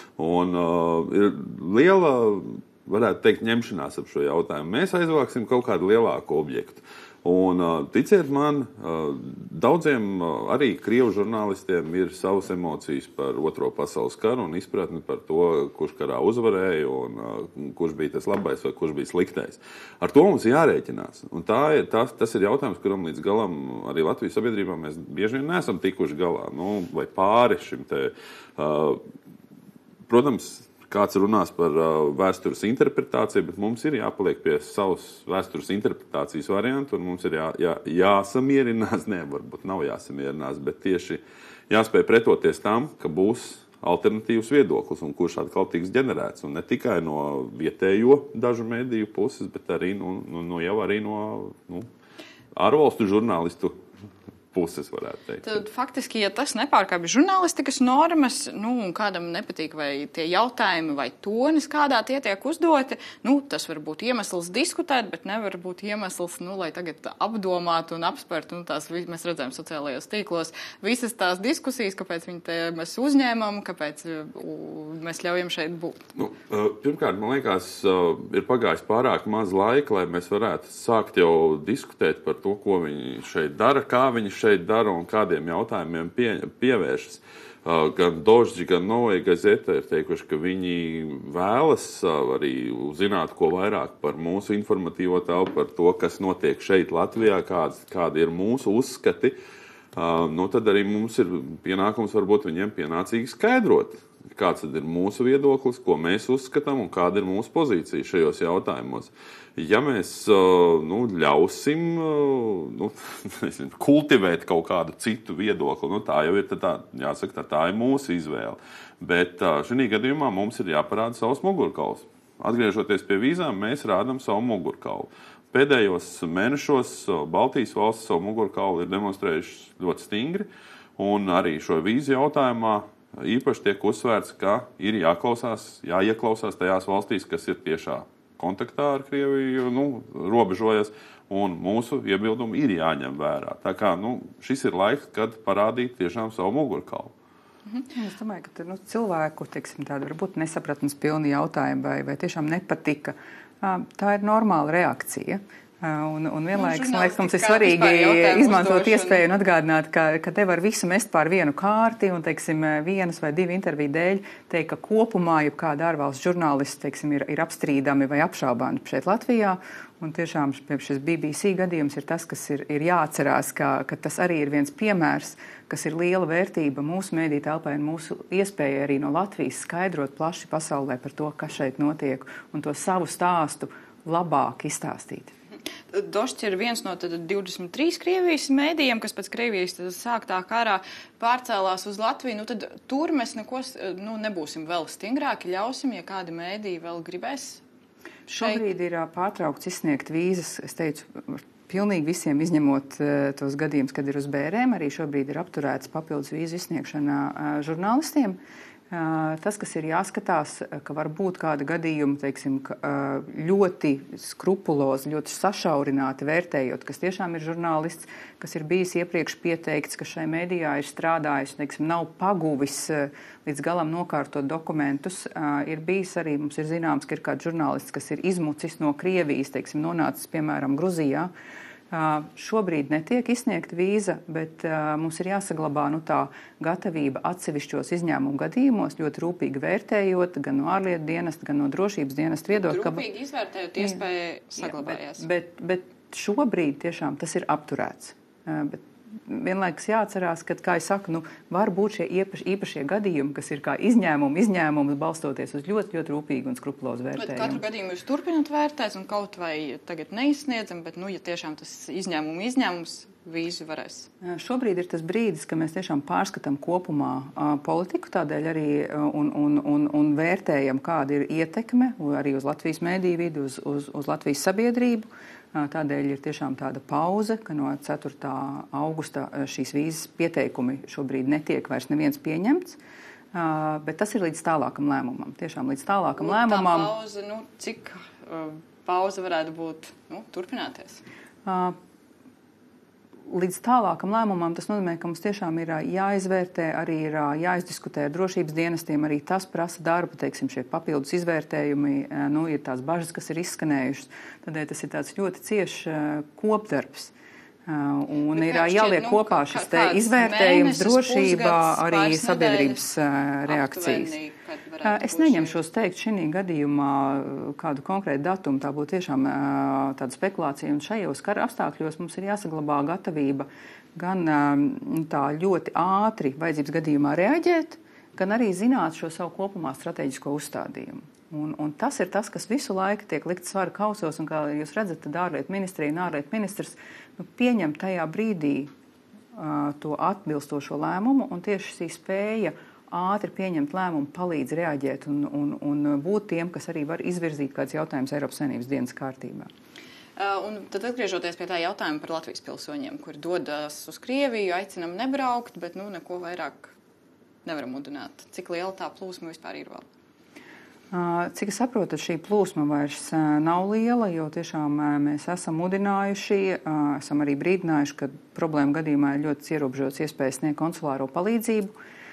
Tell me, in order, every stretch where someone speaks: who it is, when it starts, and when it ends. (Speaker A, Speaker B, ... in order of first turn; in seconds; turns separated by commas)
Speaker A: 0.2-29.0, Speaker A: 30.1-51.9, Speaker A: 52.5-53.8, Speaker A: 54.5-55.6, Speaker B: 55.4-76.0, Speaker A: 76.2-99.4, Speaker A: 100.0-147.1, Speaker C: 147.9-185.3, Speaker B: 156.6-159.3, Speaker B: 185.9-197.6, Speaker B: 198.3-198.6, Speaker C: 198.3-208.4, Speaker C: 208.9-231.3, Speaker C: 231.9-243.0, Speaker B: 242.5-245.2, Speaker C: 244.6-257.6, Speaker B: 257.2-264.1, Speaker C: 264.2-282.8, Speaker C: 283.3-286.9, Speaker B: 286.2-291.0, Speaker C: 291.4-291.8, Speaker C: 293.3-307.1, Speaker C: 307.7-314.1, Speaker B: 308.3-312.8, Speaker B: 313.5-315.6, Speaker C: 314.8-338.7, Speaker C: 339.3-349.5, Speaker B: 350.2-356.7, Speaker B: 357.4-359.9, Speaker C: 360.9-371.7